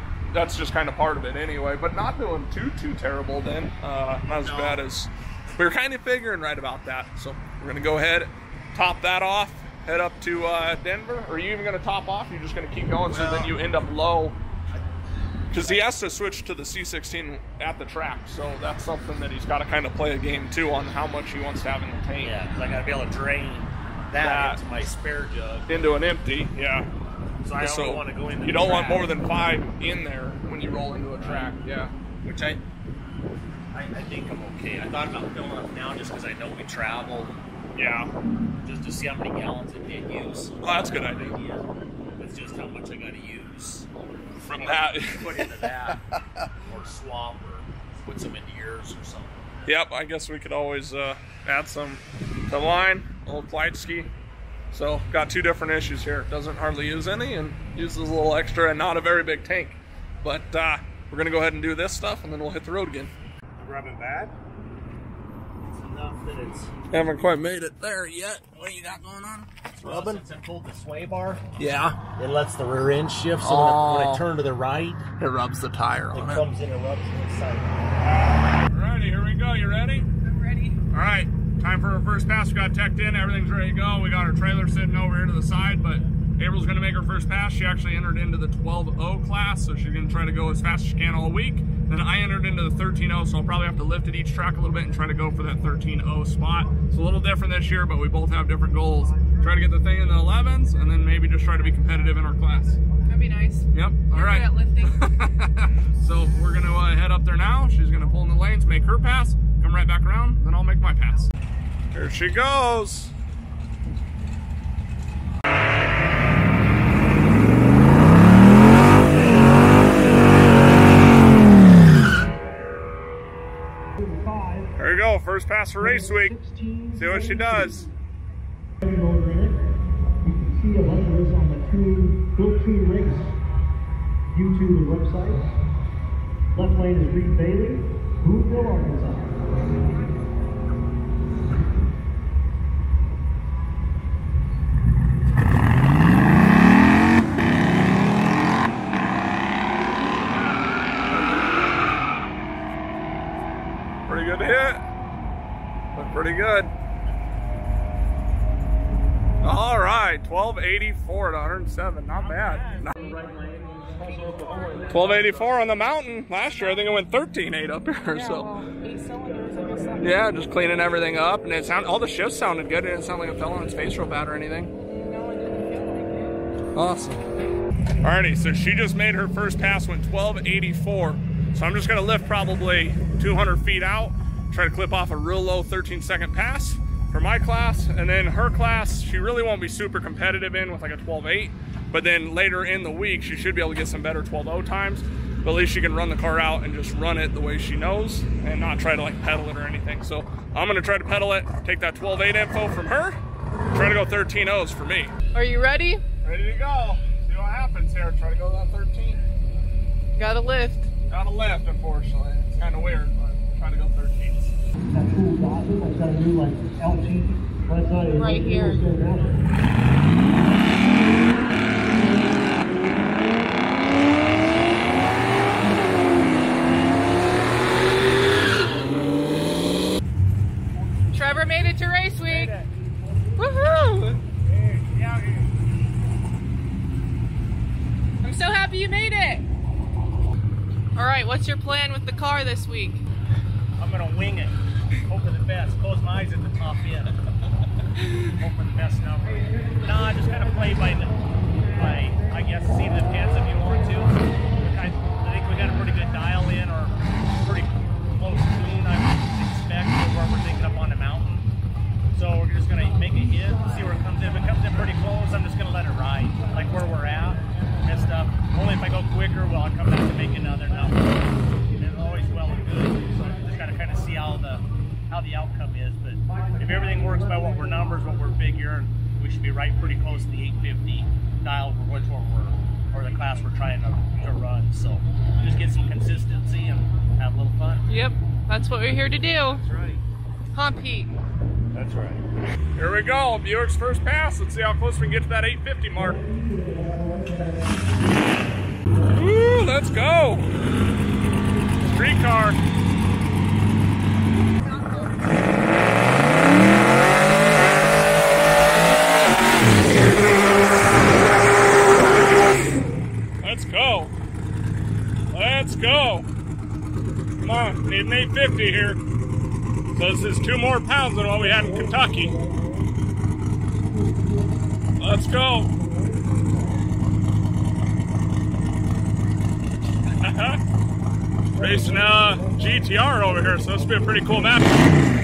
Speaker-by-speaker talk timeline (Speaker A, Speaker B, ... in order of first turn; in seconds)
Speaker A: 0.3-14.4, 15.5-22.3, 24.2-24.6, 25.7-26.9, 27.6-31.9, 37.8-38.1, 40.6-41.4, 44.4-46.4, 49.7-54.1, 54.7-63.1, 66.9-70.2, 71.6-72.0, 73.4-74.3, 75.2-76.5, 78.0-80.1, 80.9-102.8, 103.7-111.3, 111.9-113.1, 124.7-126.3, 127.0-127.9, 154.1-154.8, 155.9-156.7, 159.4-163.2, 164.9-168.5, 170.0-174.7, 176.8-177.2, 178.0-203.2, 203.7-205.1, 206.2-209.2, 211.1-214.5, 292.8-296.3, 299.1-300.5, 301.9-302.6, 313.4-314.1, 315.3-316.3, 317.4-319.0, 319.9-322.4, 325.0-325.7, 330.2-330.6, 331.6-334.9
Speaker B: 4.3-4.8, 13.1-13.6, 15.5-15.9, 22.2-25.7, 27.4-29.2, 31.1-31.5, 32.2-32.6, 33.7-37.4, 38.6-41.7, 42.2-43.9, 44.5-46.0, 46.6-49.7, 63.6-64.3, 65.7-66.7, 69.8-71.4, 72.2-75.0, 76.1-77.8, 234.5-235.4, 243.8-244.6, 245.1-247.2, 248.3-251.2, 251.7-261.4, 262.1-271.2, 271.8-287.9, 289.6-290.0, 291.7-292.2
Speaker C: 80.2-80.8, 103.0-105.1, 164.2-165.0, 166.4-166.9, 168.1-170.2, 174.9-176.4, 205.3-206.0, 210.2-210.9, 218.1-218.8, 231.1-232.5, 233.4-234.2, 238.2-239.4, 240.9-243.0, 287.9-289.6, 290.5-291.1, 304.6-305.3
Speaker D: 124.0-124.7, 125.9-127.7, 128.8-129.6, 130.2-133.3, 134.3-135.4, 136.6-139.3, 162.9-165.3, 214.9-219.4